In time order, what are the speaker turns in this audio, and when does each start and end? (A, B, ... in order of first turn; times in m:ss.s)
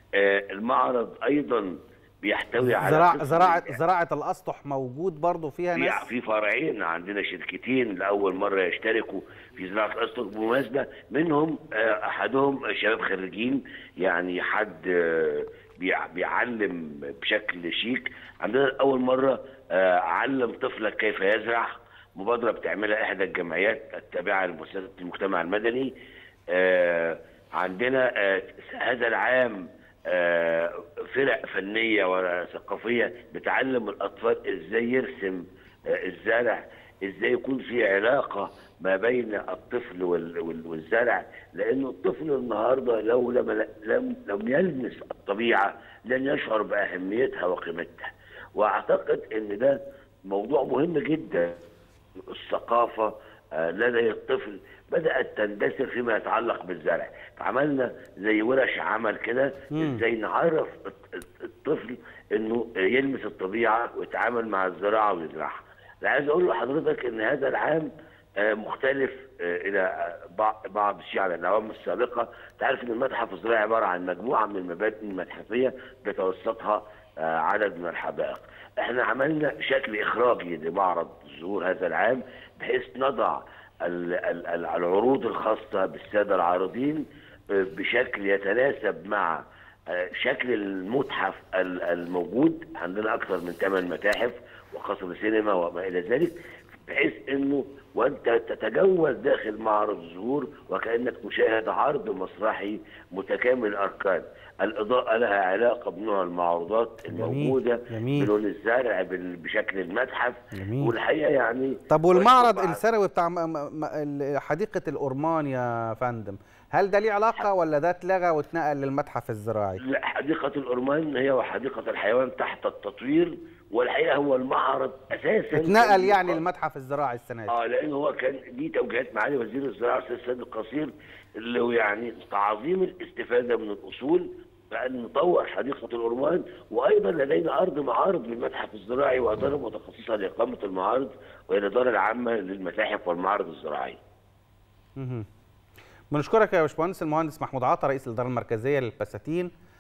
0:00.2-0:03.8 A
0:02.6-0:06.1 B
0:05.8-0:25.9 A
0:26.5-0:49.8 A
0:50.3-0:51.6 A
0:52.3-1:07.9 A
0:59.7-1:00.0 B
1:08.4-1:52.8 A
1:47.1-1:48.3 B
1:50.5-1:50.9 B
1:51.9-1:59.8 B
1:59.8-2:06.4 A
2:05.5-2:07.6 B
2:07.5-2:24.0 A
2:25.0-2:25.3 B
2:26.1-2:29.5 B